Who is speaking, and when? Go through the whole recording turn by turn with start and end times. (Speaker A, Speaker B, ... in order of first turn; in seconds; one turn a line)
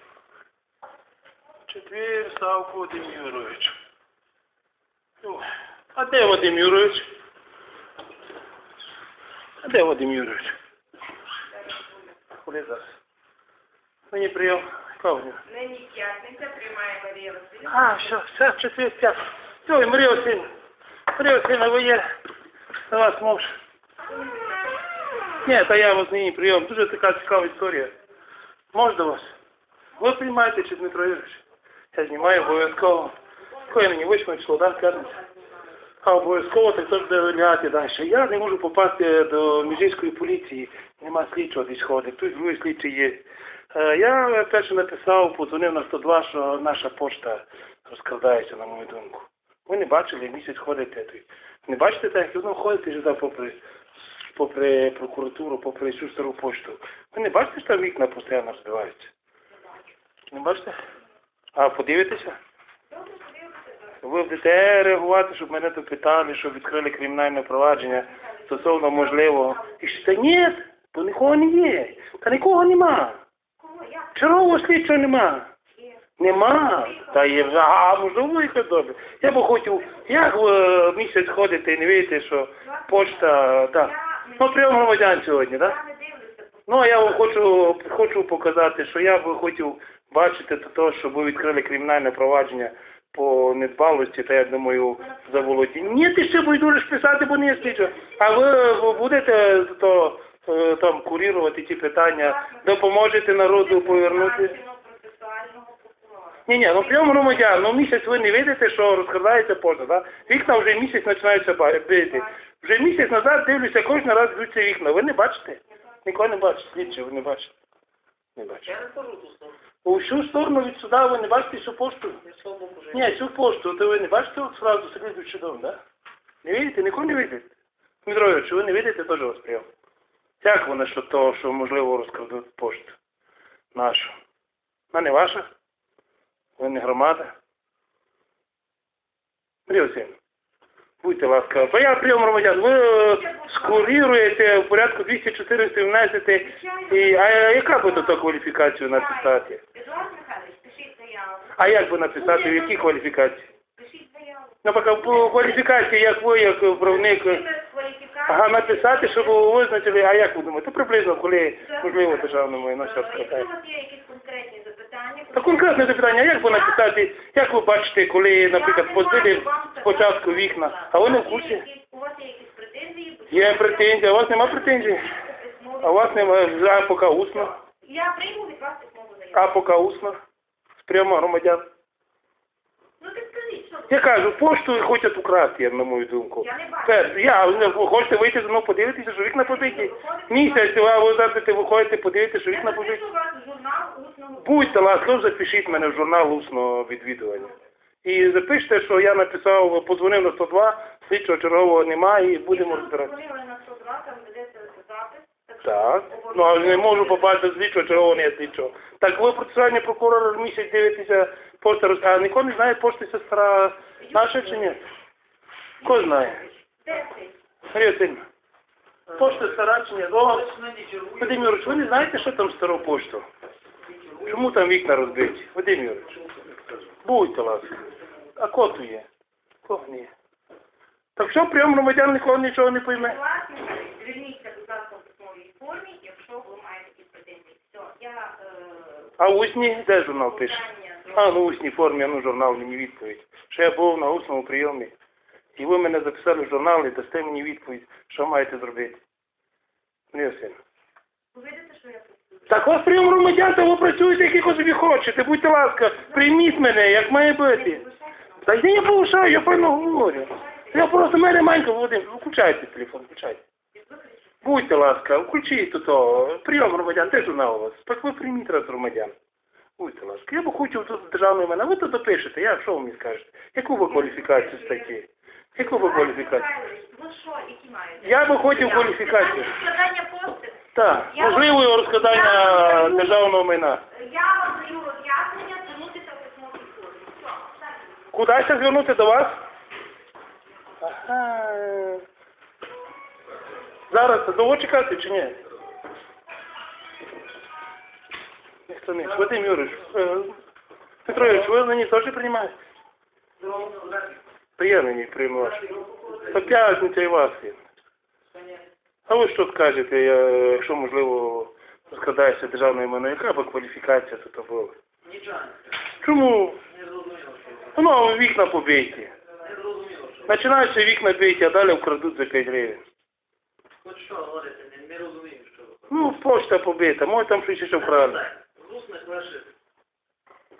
Speaker A: 1.7-3.7
Speaker A: 5.2-7.1
Speaker A: 9.6-10.6
Speaker B: 11.6-12.0
Speaker A: 12.4-12.8
Speaker A: 14.1-15.4
Speaker B: 15.4-18.2
Speaker A: 17.7-20.4
Speaker A: 21.1-22.0
Speaker A: 22.9-23.5
Speaker A: 25.4-27.9
Speaker A: 28.7-29.3
Speaker A: 30.0-31.4
Speaker A: 31.9-33.1
Speaker A: 33.7-35.1
Speaker B: 34.8-35.7
Speaker A: 36.0-59.1
Speaker A: 60.3-60.8
Speaker A: 61.5-62.4
Speaker B: 62.9-64.0
Speaker A: 64.0-73.2
Speaker B: 67.9-70.1
Speaker B: 73.6-74.3
Speaker A: 74.1-75.5
Speaker B: 75.7-77.5
Speaker A: 76.2-85.8
Speaker B: 82.6-86.9
Speaker A: 86.7-104.5
Speaker B: 95.0-95.9
Speaker B: 97.5-99.3
Speaker B: 102.2-107.4
Speaker A: 106.5-117.5
Speaker B: 112.1-112.4
Speaker A: 118.3-118.7
Speaker C: 118.7-119.6
Speaker A: 119.8-122.2
Speaker C: 122.2-123.1
Speaker A: 122.9-125.8
Speaker A: 126.4-127.5
Speaker A: 128.0-129.7
Speaker A: 130.4-133.0
Speaker A: 133.7-134.1
Speaker A: 134.9-135.5
Speaker A: 136.6-137.3
Speaker A: 139.7-140.1
Speaker A: 141.0-149.6
Speaker B: 143.1-144.0
Speaker B: 146.4-148.2
Speaker B: 148.9-152.9
Speaker A: 151.6-153.5
Speaker B: 153.6-155.6
Speaker A: 154.6-157.4
Speaker B: 156.7-159.7
Speaker A: 158.3-163.5
Speaker B: 161.6-166.8
Speaker A: 165.3-171.6
Speaker B: 168.5-176.3
Speaker A: 173.3-175.1
Speaker A: 175.8-177.5
Speaker B: 177.4-179.5
Speaker A: 179.3-180.2
Speaker A: 180.8-181.6
Speaker B: 183.0-184.3
Speaker A: 183.9-193.0
Speaker B: 186.4-187.3
Speaker B: 189.4-190.9
Speaker B: 192.5-195.5
Speaker A: 194.4-197.5
Speaker A: 198.0-203.1
Speaker B: 202.5-207.3
Speaker A: 205.6-214.8
Speaker B: 214.0-214.4
Speaker B: 215.8-217.4
Speaker A: 215.8-216.4
Speaker A: 217.7-218.2
Speaker C: 219.1-219.5
Speaker A: 219.2-220.5
Speaker C: 220.2-222.3
Speaker A: 221.2-223.2
Speaker C: 223.9-224.6
Speaker A: 224.2-226.1
Speaker A: 227.0-227.8
Speaker A: 228.3-229.1
Speaker A: 229.6-230.1
Speaker A: 231.2-233.2
Speaker B: 232.9-239.1
Speaker A: 239.2-244.9
Speaker B: 240.2-241.3
Speaker A: 245.6-249.0
Speaker A: 250.1-250.6
Speaker B: 251.3-252.5
Speaker A: 252.5-257.8
Speaker B: 256.1-256.7
Speaker B: 257.4-261.0
Speaker A: 258.4-263.4
Speaker B: 263.7-264.5
Speaker A: 264.4-269.1
Speaker A: 269.8-276.4
Speaker B: 273.9-274.9
Speaker B: 275.6-283.1
Speaker A: 278.0-279.5
Speaker A: 280.7-283.8
Speaker B: 283.9-287.9
Speaker A: 288.1-289.4
Speaker A: 290.8-292.0
Speaker A: 293.9-295.4
Speaker A: 298.7-300.4
Speaker A: 301.1-302.5
Speaker C: 303.4-304.2
Speaker A: 304.6-305.7
Speaker C: 305.4-306.5
Speaker A: 306.2-307.6
Speaker C: 308.3-308.6
Speaker A: 309.1-314.7
Speaker C: 315.0-315.7
Speaker A: 316.0-316.6
Speaker C: 316.7-317.8
Speaker A: 317.7-319.1
Speaker C: 319.4-320.4
Speaker A: 320.2-322.8
Speaker C: 323.8-325.9
Speaker A: 325.9-328.2
Speaker C: 327.8-329.5